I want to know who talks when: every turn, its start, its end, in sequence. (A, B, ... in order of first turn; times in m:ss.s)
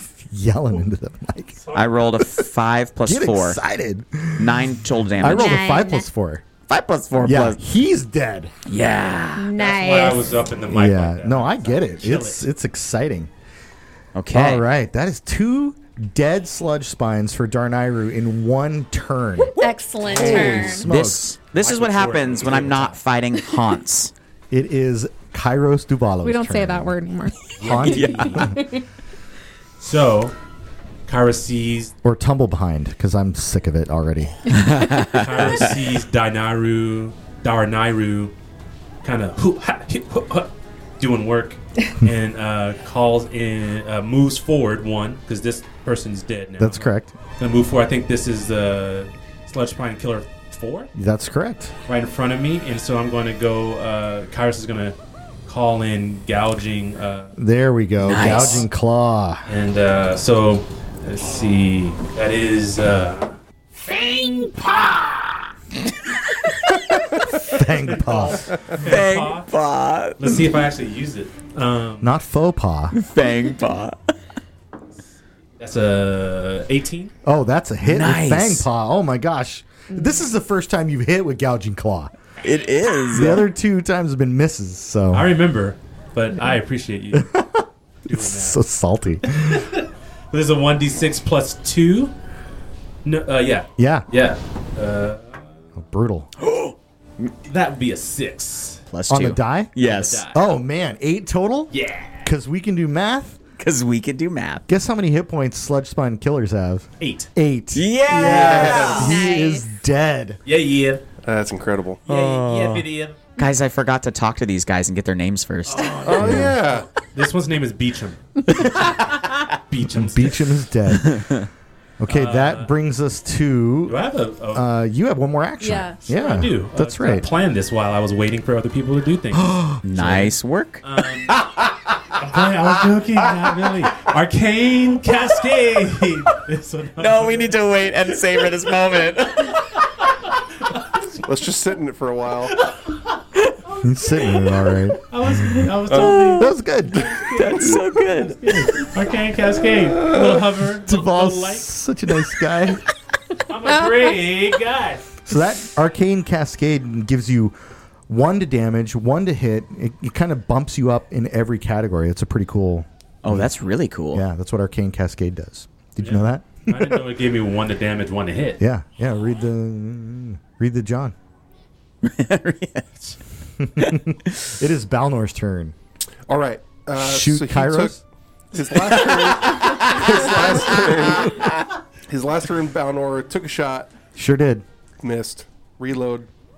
0:00.3-0:01.6 A
0:01.6-0:01.9 B
0:01.7-0:03.6 C
0:03.0-0:06.4 A
0:04.4-0:05.8 C
0:05.2-0:06.1 D
0:06.7-0:07.6 C
0:07.2-0:08.5 A
0:08.6-0:09.5 C
0:09.4-0:10.4 D
0:09.5-0:12.4 B
0:10.7-0:13.3 A
0:14.1-0:14.6 C
0:14.3-0:19.5 A
0:19.6-0:20.9 D
0:20.1-0:20.7 E
0:20.2-0:21.2 A
0:20.3-0:24.1 C
0:21.6-0:23.0 B
0:24.5-0:27.0 A
0:26.2-0:28.8 D
0:27.6-0:28.5 B
0:27.6-0:28.5 A
0:27.8-0:28.4 C
0:29.8-0:30.3 B
0:31.0-0:31.9 B
0:32.0-0:34.3 A
0:34.5-0:35.6 C
0:35.0-0:38.3 B
0:39.0-0:50.9 B
0:46.6-0:47.1 A
0:50.9-0:51.7 A
0:51.9-0:57.3 B
0:57.4-0:59.5 A
0:58.0-0:58.6 C
0:58.1-0:58.6 B
0:59.4-1:05.2 B
1:06.5-1:07.0 C
1:07.4-1:08.6 A
1:07.6-1:09.5 B
1:08.7-1:10.5 C
1:10.2-1:12.1 B
1:12.0-1:13.0 A
1:12.9-1:14.1 C
1:15.6-1:17.1 B
1:17.2-1:22.1 A
1:17.8-1:18.6 C
1:22.4-1:23.4 C
1:23.1-1:25.3 A
1:25.1-1:27.3 B
1:27.1-1:29.7 A
1:28.1-1:28.6 B
1:29.3-1:32.1 B
1:33.0-1:35.5 B
1:33.8-1:34.1 A
1:35.8-1:36.3 A
1:36.4-1:37.3 C
1:37.4-1:38.8 B
1:38.9-1:40.3 C
1:39.1-1:39.8 A
1:39.8-1:40.4 B
1:40.3-1:41.7 A
1:41.7-1:42.3 B
1:42.2-1:43.4 A
1:43.6-1:44.6 C
1:44.7-1:50.4 A
1:47.0-1:47.3 B
1:47.7-1:49.2 C
1:48.2-1:49.1 B
1:48.5-1:49.7 D
1:50.4-1:51.0 B
1:51.2-1:52.0 E
1:52.0-1:53.2 B
1:52.1-1:56.4 C
1:55.7-2:00.6 B
1:56.0-1:56.9 E
1:56.2-1:56.6 A
2:00.0-2:01.4 A
2:01.1-2:01.4 C
2:02.0-2:04.0 A
2:02.1-2:02.7 B
2:03.9-2:04.7 B
2:04.5-2:07.3 A
2:05.6-2:06.0 D
2:06.1-2:11.4 B
2:09.3-2:09.8 A
2:09.8-2:11.5 C
2:12.1-2:17.7 B
2:17.0-2:19.8 C
2:20.7-2:21.1 B
2:21.2-2:22.6 E
2:22.6-2:23.0 B
2:23.8-2:25.7 A
2:25.1-2:31.7 B
2:25.9-2:26.5 C
2:25.9-2:26.2 E
2:26.2-2:27.6 A
2:27.1-2:28.8 C
2:30.8-2:32.8 A
2:33.3-2:35.2 B
2:35.2-2:37.5 A
2:38.1-2:43.5 A
2:43.2-2:44.2 C
2:44.1-2:47.0 A
2:46.0-2:48.6 B
2:48.6-2:51.1 A
2:52.0-2:52.9 C
2:53.6-2:55.7 A
2:53.8-2:54.5 C
2:56.3-2:58.0 E
2:56.9-2:58.0 A
2:58.5-3:01.5 E
2:58.8-3:00.9 C
3:02.1-3:03.9 E
3:04.2-3:04.6 A
3:05.0-3:06.3 E